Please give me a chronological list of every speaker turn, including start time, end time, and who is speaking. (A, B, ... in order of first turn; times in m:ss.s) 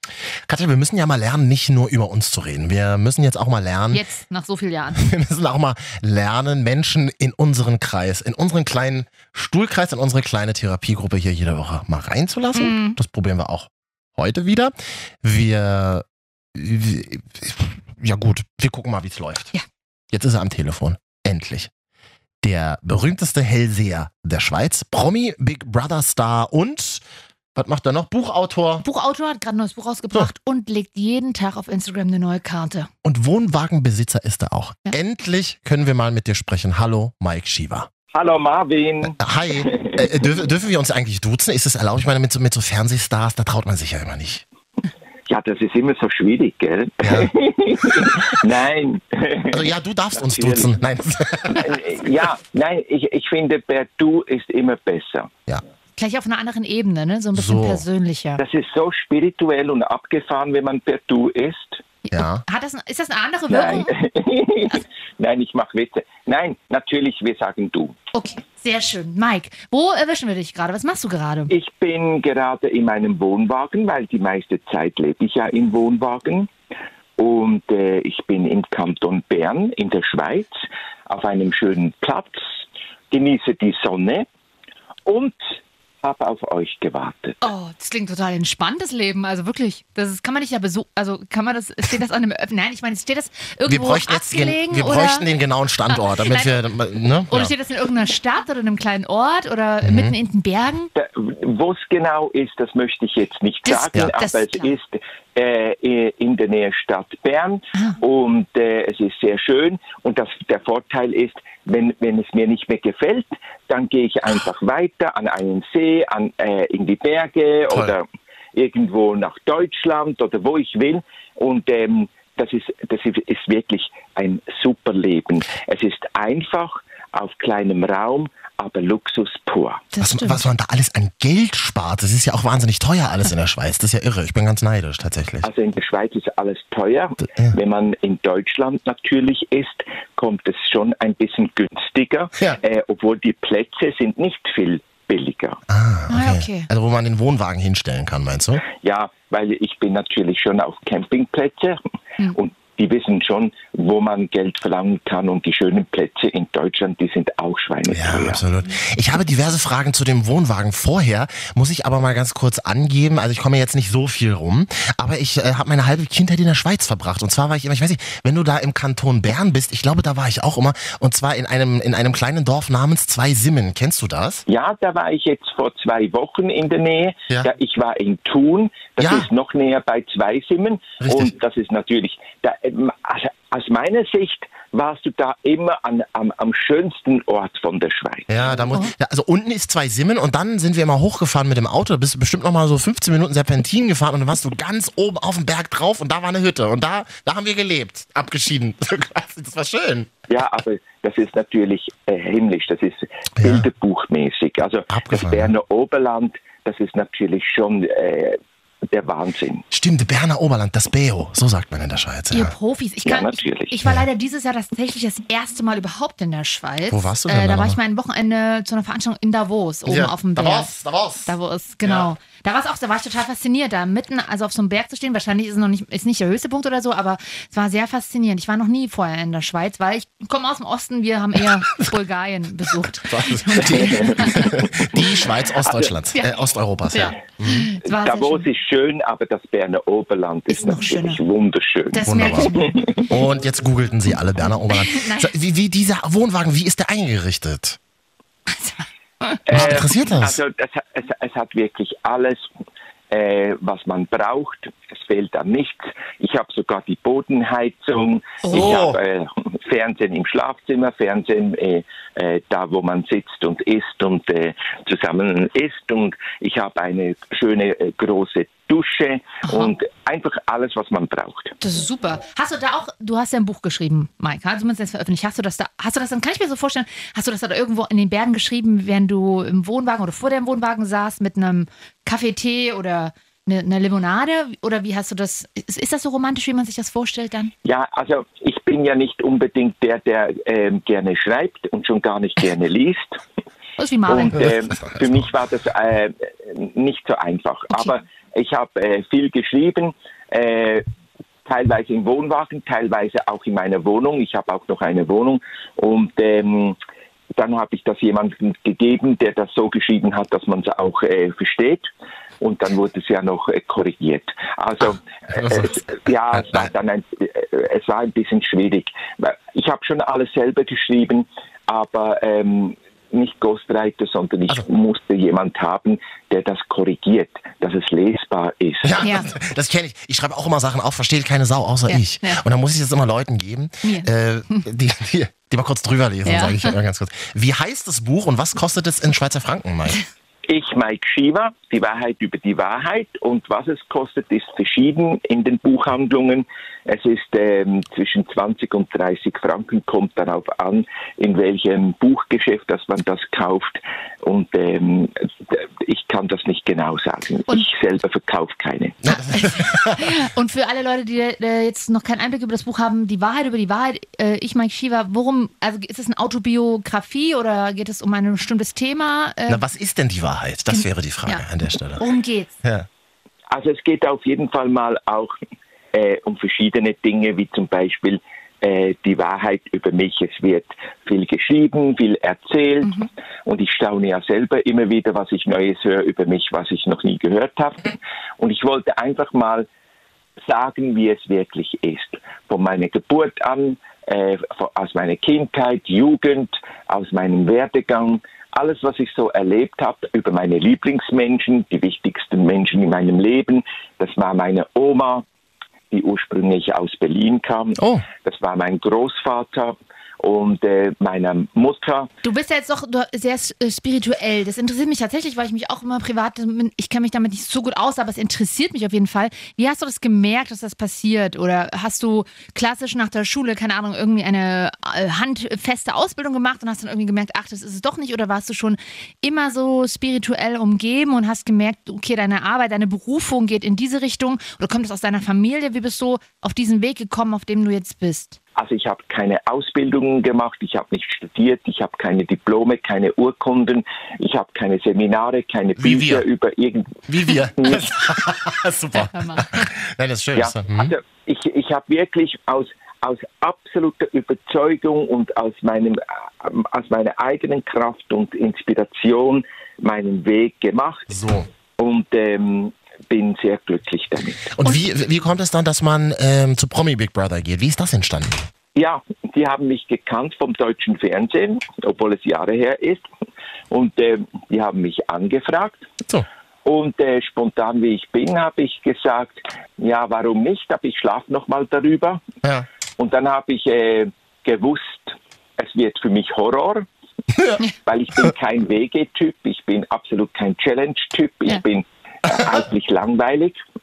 0:00.5-0:04.0 A
0:03.9-0:05.0 B
0:05.0-0:19.5 A
0:12.5-0:13.0 B
0:20.1-0:21.7 A
0:22.4-0:27.0 A
0:27.5-0:28.8 A
0:28.8-0:32.9 B
0:33.0-0:37.9 A
0:38.1-0:40.2 C
0:39.2-0:44.4 A
0:45.3-0:50.8 C
0:47.0-0:47.3 A
0:49.5-0:51.8 A
0:51.5-0:55.3 C
0:56.0-0:58.4 B
0:57.4-0:57.8 A
0:58.4-1:01.8 C
1:02.0-1:03.9 B
1:02.1-1:02.4 A
1:03.5-1:08.0 C
1:08.1-1:11.5 B
1:11.5-1:16.5 C
1:17.2-1:20.5 C
1:21.1-1:24.2 C
1:25.0-1:27.4 C
1:27.4-1:35.3 B
1:33.6-1:37.5 A
1:35.9-1:36.6 B
1:37.3-1:40.9 B
1:39.8-1:40.2 A
1:40.9-2:09.9 C
1:43.6-1:44.8 B
1:57.7-1:58.0 A
2:09.9-2:10.4 B
2:10.0-2:15.5 A
2:15.4-2:25.6 C
2:17.2-2:17.6 A
2:25.7-2:28.6 A
2:26.1-2:26.7 B
2:28.6-2:31.8 C
2:32.3-2:38.4 C
2:37.9-2:54.4 A
2:54.5-3:08.3 C
2:59.0-2:59.3 A
3:01.0-3:01.3 A
3:08.3-3:20.1 A
3:20.3-3:28.4 C
3:23.4-3:23.7 A
3:24.9-3:25.5 A
3:28.9-3:29.6 C
3:29.7-3:32.5 A
3:32.3-3:40.7 B
3:33.0-3:33.8 C
3:36.9-3:37.8 A
3:39.8-3:41.3 A
3:41.2-3:55.0 B
3:53.1-3:57.7 A
3:53.8-3:54.1 C
3:55.6-3:55.9 C
3:56.9-3:58.5 B
3:57.8-4:03.0 C
4:00.5-4:01.2 B
4:01.9-4:02.8 B
4:02.0-4:02.6 A
4:03.1-4:07.8 A
4:04.7-4:05.3 B
4:08.5-4:09.7 B
4:09.5-4:12.4 C
4:09.5-4:10.4 A
4:13.1-4:31.6 C
4:18.4-4:18.8 B
4:18.5-4:19.0 A
4:29.4-4:29.7 B
4:31.6-4:47.5 B
4:47.6-4:53.2 C
4:53.8-4:54.5 B
4:54.1-5:00.8 C
4:54.4-4:55.3 A
4:57.7-4:58.0 B
5:01.4-5:06.8 C
5:07.3-5:11.9 C
5:12.4-5:29.0 C
5:15.3-5:15.8 A
5:16.3-5:16.7 A
5:28.8-5:40.0 A
5:29.0-5:29.3 B
5:31.9-5:32.4 B
5:33.8-5:34.6 B
5:36.2-5:36.8 B
5:40.5-5:59.0 C
5:59.0-6:00.1 A
5:59.3-6:09.6 B
6:09.5-6:12.0 A
6:10.7-6:12.6 B
6:13.5-6:15.3 C
6:15.9-6:29.7 C
6:22.8-6:23.1 B
6:30.4-6:45.2 C
6:45.9-6:52.1 C
6:47.8-6:48.0 A
6:52.2-7:18.4 B
7:18.5-7:27.0 C
7:25.8-7:26.2 A
7:27.1-7:30.9 A
7:27.6-7:27.9 C
7:28.9-7:29.7 B
7:30.3-7:41.2 C
7:41.1-7:41.5 A
7:41.8-7:44.5 C
7:44.5-7:48.4 A
7:48.7-7:53.0 C
7:53.7-7:55.9 C
7:56.6-8:02.2 C
8:03.0-8:06.8 C
8:07.3-8:07.6 A
8:07.8-8:13.6 C